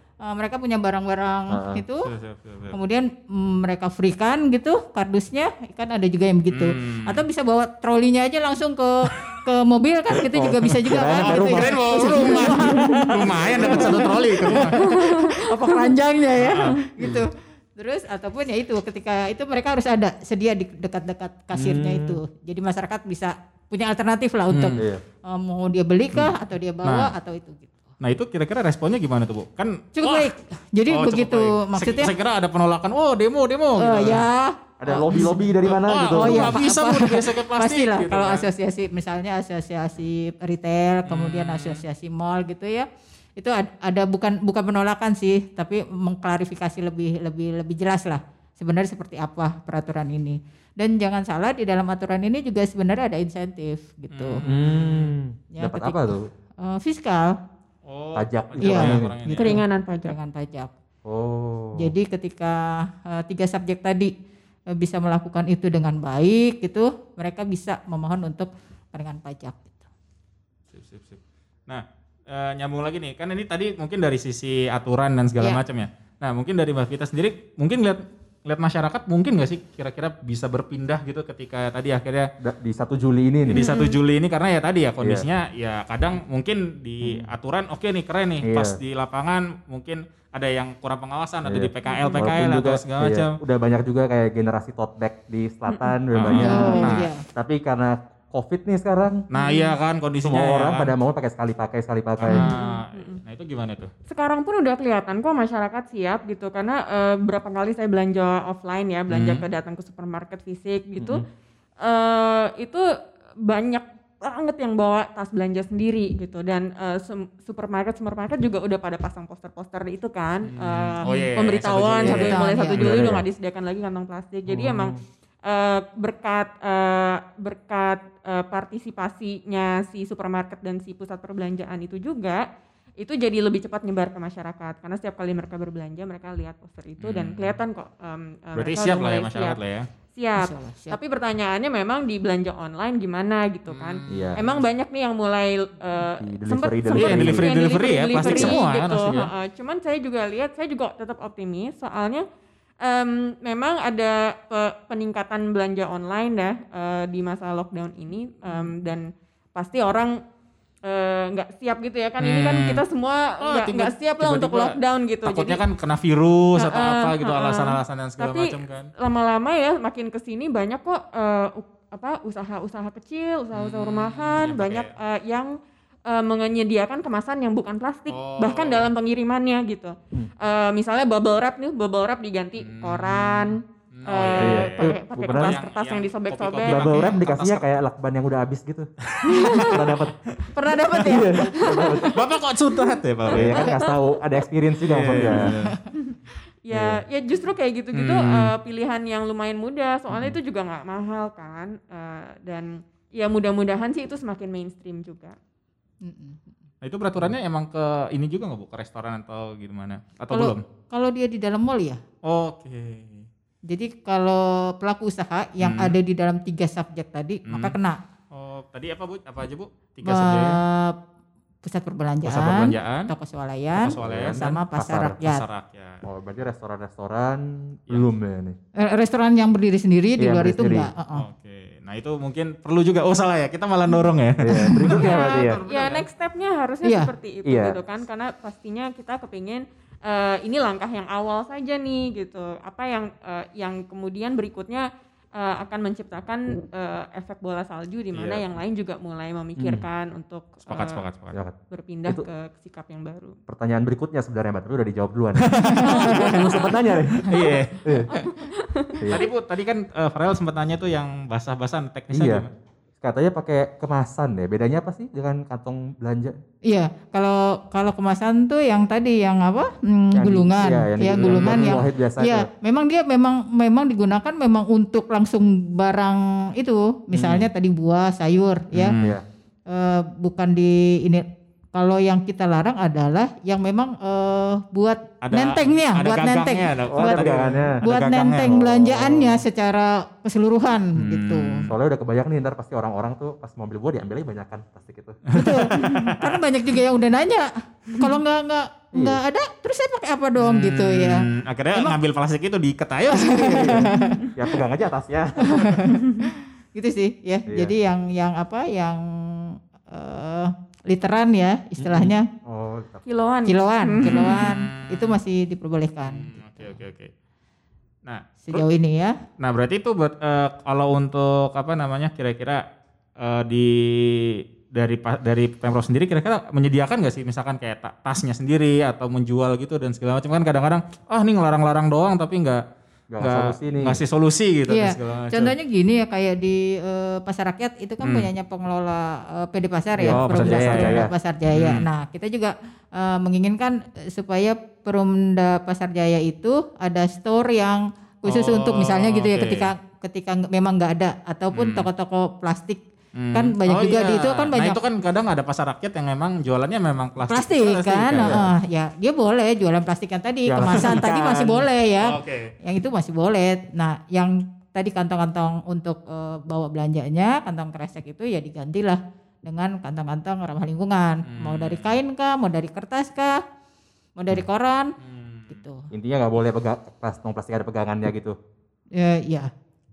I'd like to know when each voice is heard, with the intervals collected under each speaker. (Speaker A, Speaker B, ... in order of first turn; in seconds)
Speaker A: 0.2-2.1, 2.7-27.8, 30.0-32.1, 33.8-35.3, 36.1-54.4, 55.5-56.1, 56.6-57.3, 58.6-59.4, 60.0-60.7, 61.8-64.1, 64.7-69.8, 96.4-97.2, 122.1-122.8, 140.4-141.0, 190.5-191.4, 206.0-206.4, 210.3-212.0, 213.7-218.0, 220.1-220.9, 221.6-225.4, 228.8-231.2, 234.5-234.9, 236.8-237.1, 266.7-278.9, 279.7-287.3, 287.8-291.6, 295.3-302.0, 303.1-304.2, 305.6-306.0, 306.8-312.2, 313.5-316.8, 318.4-319.1, 334.7-352.8, 353.3-354.8, 357.3-373.4, 374.2-374.9, 375.5-375.9, 379.0-379.5
Speaker B: 1.5-1.8, 10.2-12.2, 13.4-13.9, 21.5-22.2, 34.8-36.6, 54.5-56.2, 58.1-59.3, 61.0-61.9, 82.4-83.7, 88.5-88.8, 91.5-99.2, 100.2-102.5, 122.7-123.2, 124.5-125.0, 144.1-144.4, 146.0-147.5, 148.2-148.5, 184.4-185.6, 186.6-188.9, 189.6-190.2, 190.9-192.2, 193.3-195.6, 196.7-197.0, 224.0-225.2, 226.0-228.6, 230.2-230.9, 234.4-235.6, 237.5-237.8, 249.6-249.8, 251.3-252.2, 253.5-257.3, 262.1-262.5, 263.0-266.3, 270.2-272.5, 286.9-287.8, 288.4-289.4, 291.7-295.2, 298.9-299.2, 303.6-305.8, 311.8-313.0, 333.1-334.0, 340.0-341.1, 358.2-358.5, 360.5-361.1, 375.9-378.4
Speaker C: 2.0-2.8, 6.5-7.2, 11.2-14.8, 16.4-16.7, 24.5-24.8, 26.8-27.1, 28.0-30.3, 30.9-34.2, 35.6-38.5, 41.1-41.8, 54.1-55.1, 57.9-59.6, 70.7-82.3, 83.5-93.3, 96.2-97.1, 99.3-100.9, 102.2-103.9, 109.1-109.4, 120.5-123.1, 137.0-137.6, 138.6-139.9, 143.7-144.6, 146.9-149.3, 158.5-158.8, 162.2-162.8, 163.4-168.9, 173.5-174.9, 178.1-178.9, 182.6-187.7, 189.1-189.6, 192.1-193.7, 194.9-195.8, 197.9-198.5, 206.8-210.6, 212.2-213.3, 215.6-216.0, 217.5-217.7, 218.3-220.6, 222.2-223.1, 223.8-226.0, 231.1-236.1, 250.7-251.4, 255.5-256.7, 257.2-257.8, 259.1-262.5, 271.3-271.7, 277.1-277.5, 278.7-279.2, 285.2-288.5, 291.0-291.7, 295.3-296.4, 300.4-303.8, 314.0-315.2, 316.1-317.1, 318.1-318.6, 319.4-322.6, 323.2-332.6, 333.2-335.6, 338.0-338.3, 340.1-341.9, 348.3-349.7, 351.5-351.9, 353.2-358.4, 360.6-362.5, 371.3-372.0, 375.0-375.6
Speaker D: 14.8-15.3, 59.3-60.1, 83.5-84.0, 96.5-96.8, 99.4-99.7, 102.4-103.2, 104.1-111.2, 111.8-112.8, 113.4-125.0, 125.5-132.4, 133.0-139.6, 140.2-152.2, 152.8-160.1, 160.8-165.6, 166.6-175.5, 176.1-186.9, 189.3-189.8, 191.8-192.2, 193.3-194.0, 196.7-205.4, 234.9-251.0, 251.7-253.4, 256.0-256.4, 258.1-259.1, 304.0-304.3, 313.1-314.5